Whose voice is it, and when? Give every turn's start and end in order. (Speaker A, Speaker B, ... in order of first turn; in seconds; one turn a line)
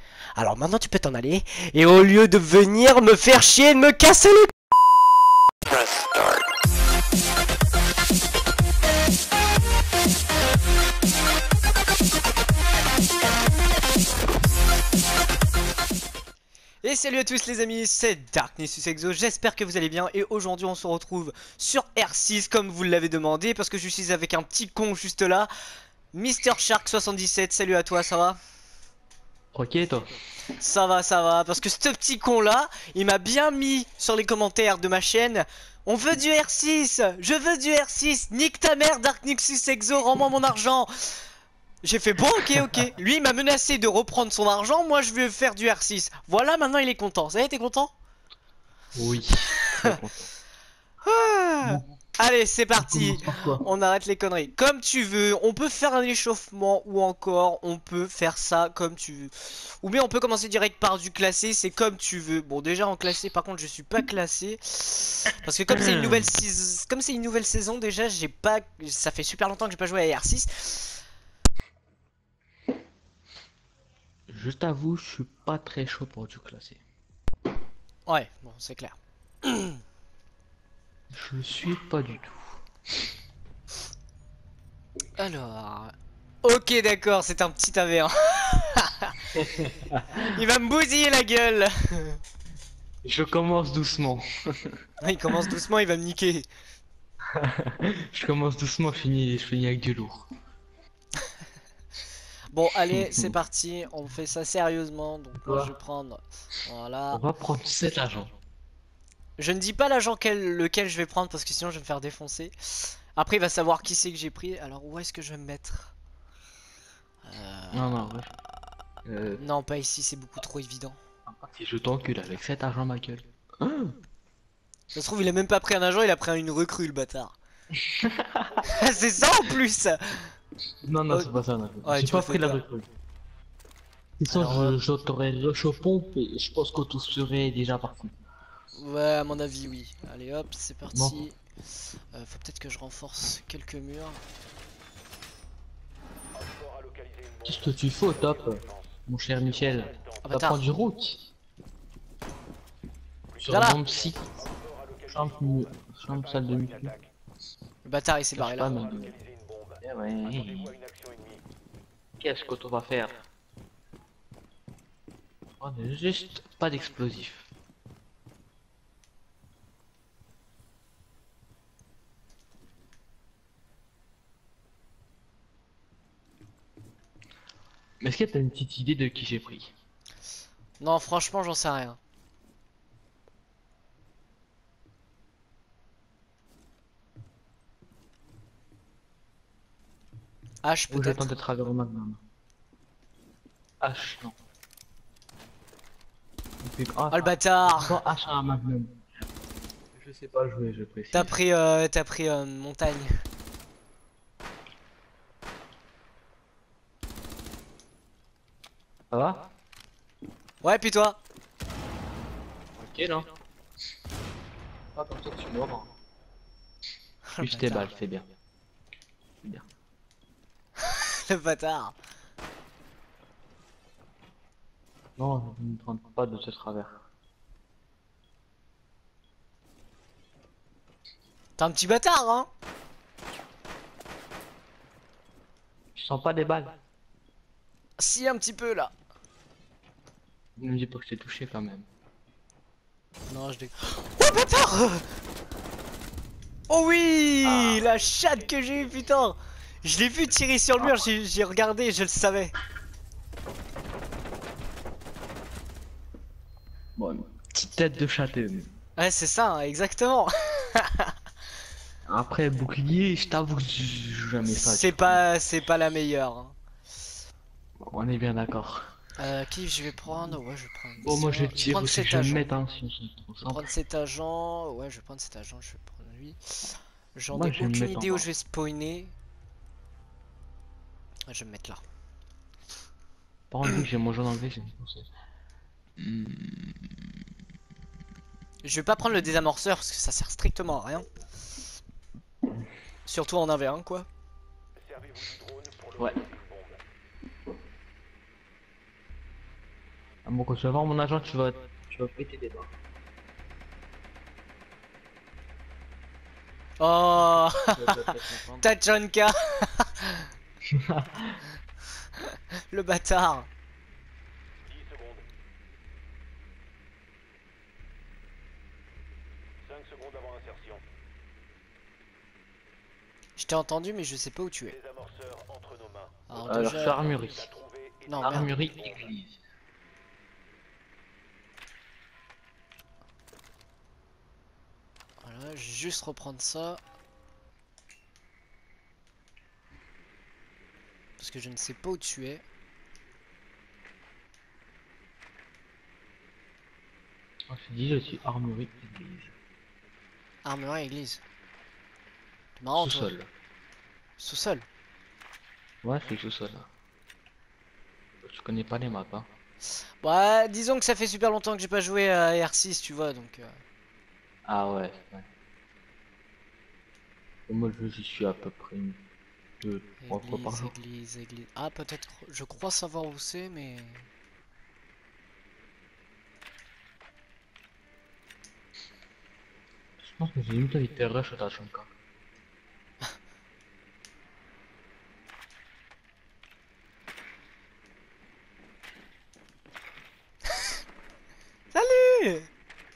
Speaker A: 0.4-4.5
Speaker A: 16.8-25.5
Speaker A: 26.1-28.4
Speaker B: 29.5-30.1
Speaker A: 30.6-41.3
Speaker A: 41.8-47.9
Speaker B: 48.9-50.3
Speaker A: 49.7-50.0
Speaker A: 51.0-71.0
Speaker B: 51.6-51.9
Speaker B: 52.8-53.6
Speaker B: 65.7-66.3
Speaker B: 74.3-76.8
Speaker A: 78.1-79.8
Speaker B: 81.1-82.6
Speaker A: 85.2-89.4
Speaker B: 89.4-90.2
Speaker A: 90.1-92.2
Speaker B: 93.0-95.5
Speaker A: 95.0-96.5
Speaker B: 97.2-100.3
Speaker A: 102.5-107.2
Speaker B: 102.9-103.3
Speaker B: 105.4-105.7
Speaker B: 107.1-108.3
Speaker A: 109.4-116.0
Speaker A: 117.2-118.0
Speaker B: 117.7-118.4
Speaker B: 119.0-119.4
Speaker A: 119.4-121.0
Speaker B: 121.3-124.0
Speaker A: 124.9-127.4
Speaker B: 127.7-128.7
Speaker A: 128.6-130.4
Speaker B: 130.8-132.9
Speaker A: 131.8-132.6
Speaker B: 134.2-138.1
Speaker A: 134.3-134.8
Speaker A: 138.7-144.2
Speaker B: 140.9-141.2
Speaker C: 146.3-150.4
Speaker B: 147.4-151.3
Speaker A: 150.2-150.6
Speaker C: 153.3-157.1
Speaker B: 153.4-154.3
Speaker A: 153.5-153.8
Speaker B: 155.1-156.9
Speaker A: 157.8-158.8
Speaker B: 158.3-159.1
Speaker C: 158.6-161.4
Speaker B: 159.8-160.7
Speaker B: 162.2-163.2
Speaker B: 165.6-167.5
Speaker B: 178.0-179.7
Speaker A: 180.8-182.0
Speaker A: 190.6-191.3
Speaker B: 190.9-192.2
Speaker B: 193.8-194.3
Speaker B: 196.6-199.0
Speaker A: 197.1-198.0
Speaker B: 199.9-201.4
Speaker A: 201.1-203.2
Speaker B: 209.1-209.5
Speaker A: 210.6-211.2
Speaker B: 212.8-213.3
Speaker B: 214.9-215.9
Speaker A: 217.3-217.9
Speaker B: 217.4-218.3
Speaker A: 220.8-222.0
Speaker B: 225.2-227.0
Speaker A: 231.6-232.5
Speaker B: 235.9-236.8
Speaker A: 238.0-238.9
Speaker B: 240.6-241.9
Speaker A: 243.3-245.1
Speaker A: 246.7-252.5
Speaker B: 247.4-247.8
Speaker C: 247.7-249.3
Speaker B: 250.8-251.1
Speaker B: 257.0-258.7
Speaker A: 259.0-261.1
Speaker B: 262.1-265.2
Speaker A: 264.5-266.6
Speaker B: 267.8-268.9
Speaker A: 269.2-272.5
Speaker B: 271.0-273.7
Speaker A: 273.4-279.1
Speaker B: 277.3-278.3
Speaker A: 281.3-281.8
Speaker B: 283.5-285.1
Speaker B: 286.0-286.8
Speaker A: 288.6-291.1
Speaker A: 293.1-294.1
Speaker C: 294.8-296.8
Speaker B: 300.2-302.7
Speaker A: 306.8-310.3
Speaker B: 307.6-308.7
Speaker B: 310.6-311.4
Speaker A: 312.2-313.5
Speaker C: 314.6-315.2
Speaker C: 319.6-320.9
Speaker A: 323.4-324.8
Speaker C: 324.7-329.1
Speaker A: 326.3-327.0
Speaker B: 326.4-327.5
Speaker A: 328.1-328.5
Speaker B: 328.2-329.4
Speaker A: 335.2-336.8
Speaker A: 341.2-342.4
Speaker B: 347.5-349.3
Speaker A: 350.4-351.2
Speaker A: 352.6-353.1
Speaker B: 352.8-353.3
Speaker A: 354.2-354.6
Speaker B: 355.8-356.7
Speaker B: 358.2-359.3
Speaker A: 360.0-363.6
Speaker B: 364.4-365.3
Speaker B: 367.5-369.0
Speaker B: 369.6-370.7
Speaker A: 370.0-374.1
Speaker B: 380.0-381.9
Speaker A: 391.7-392.5